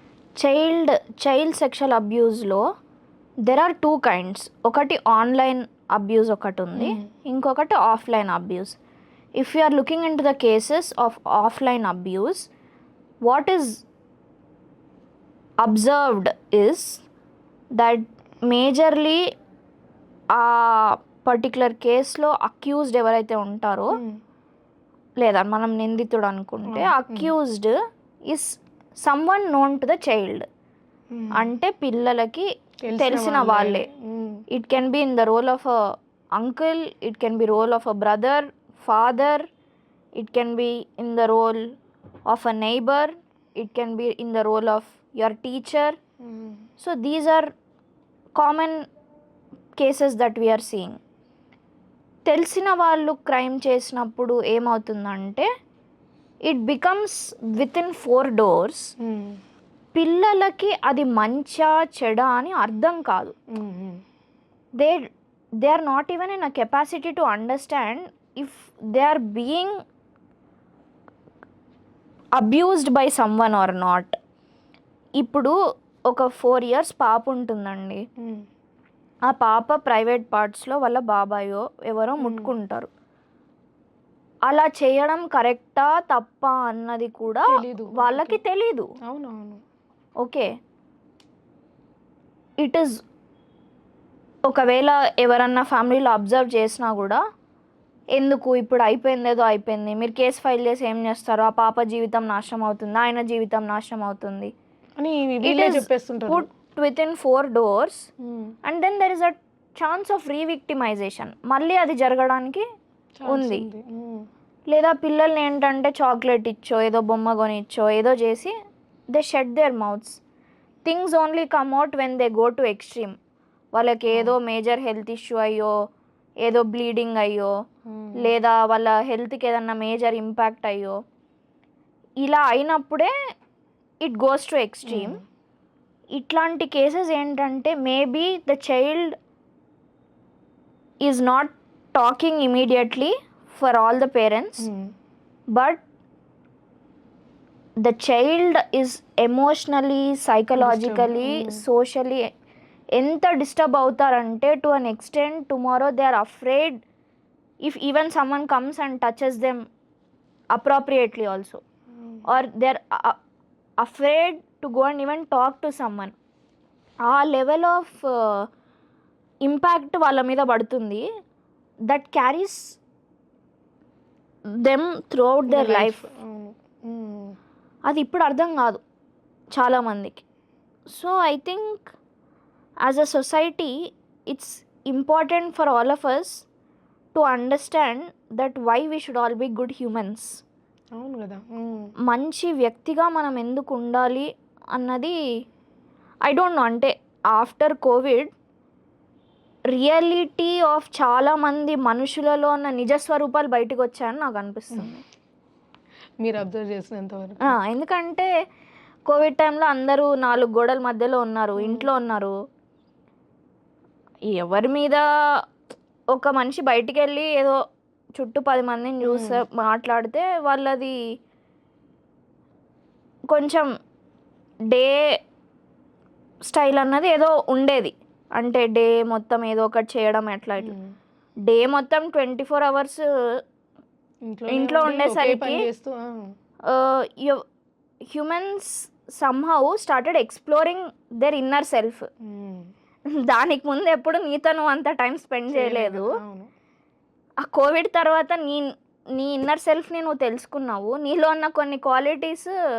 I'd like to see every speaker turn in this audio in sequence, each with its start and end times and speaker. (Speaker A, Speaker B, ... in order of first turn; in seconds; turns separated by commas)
Speaker A: 0.4-2.6, Speaker A: 3.4-8.8, Speaker B: 6.8-7.0, Speaker A: 9.3-12.5, Speaker A: 13.2-13.8, Speaker A: 15.6-17.0, Speaker A: 17.8-19.2, Speaker A: 20.3-24.0, Speaker B: 23.9-24.2, Speaker A: 25.2-27.8, Speaker B: 26.7-27.3, Speaker A: 28.3-30.4, Speaker B: 31.1-31.5, Speaker A: 31.3-33.9, Speaker B: 32.8-34.4, Speaker A: 34.5-35.8, Speaker A: 36.4-39.4, Speaker A: 40.1-41.8, Speaker A: 42.3-46.0, Speaker B: 46.2-46.6, Speaker A: 46.8-47.5, Speaker A: 48.3-48.8, Speaker A: 49.8-51.0, Speaker A: 52.2-55.5, Speaker A: 56.5-58.9, Speaker B: 59.0-59.4, Speaker A: 59.9-63.3, Speaker B: 63.5-64.0, Speaker A: 65.6-69.7, Speaker A: 72.4-74.2, Speaker A: 75.2-75.5, Speaker A: 76.1-78.0, Speaker A: 79.3-82.9, Speaker B: 82.2-82.5, Speaker A: 84.5-88.9, Speaker B: 87.5-88.4, Speaker B: 89.0-89.6, Speaker A: 90.2-90.5, Speaker A: 92.6-93.0, Speaker A: 94.5-97.2, Speaker A: 98.1-104.5, Speaker B: 105.0-106.5, Speaker A: 105.4-108.1, Speaker B: 108.3-108.5, Speaker A: 108.6-112.6, Speaker B: 113.2-114.2, Speaker A: 113.3-113.6, Speaker A: 114.7-118.5, Speaker A: 119.1-120.2, Speaker A: 120.8-123.2, Speaker A: 123.7-125.7, Speaker B: 124.1-124.3, Speaker A: 126.4-127.5, Speaker B: 127.9-128.3, Speaker A: 128.2-130.9, Speaker A: 132.2-133.1, Speaker A: 134.0-135.2, Speaker B: 134.9-135.2, Speaker A: 136.2-139.2, Speaker A: 141.0-144.7, Speaker B: 144.6-144.9, Speaker A: 145.5-145.8, Speaker A: 147.8-152.2, Speaker B: 150.6-151.6, Speaker A: 152.9-156.8, Speaker A: 157.6-159.6, Speaker A: 160.5-161.6, Speaker A: 162.3-163.2, Speaker A: 163.8-166.1, Speaker A: 167.1-168.5, Speaker A: 169.4-171.0, Speaker A: 171.9-172.8, Speaker A: 174.6-176.1, Speaker B: 175.5-177.4, Speaker A: 177.8-178.8, Speaker A: 179.5-180.2, Speaker A: 180.9-181.9, Speaker A: 182.8-183.7, Speaker A: 184.3-186.4, Speaker A: 187.1-190.4, Speaker B: 190.9-191.9, Speaker A: 192.1-195.2, Speaker A: 196.2-198.3, Speaker A: 199.7-205.0, Speaker B: 206.2-207.6, Speaker A: 207.4-208.3, Speaker A: 209.1-212.3, Speaker B: 211.6-211.9, Speaker A: 214.3-215.0, Speaker A: 216.1-217.6, Speaker A: 218.2-220.9, Speaker B: 219.0-219.4, Speaker A: 223.3-223.7, Speaker A: 224.7-225.1, Speaker A: 226.4-230.7, Speaker B: 230.6-230.9, Speaker A: 231.4-233.4, Speaker B: 234.3-236.3, Speaker A: 234.5-235.6, Speaker A: 236.7-237.4, Speaker A: 238.1-242.1, Speaker B: 242.2-242.7, Speaker A: 243.2-246.1, Speaker B: 245.5-246.5, Speaker A: 247.4-252.5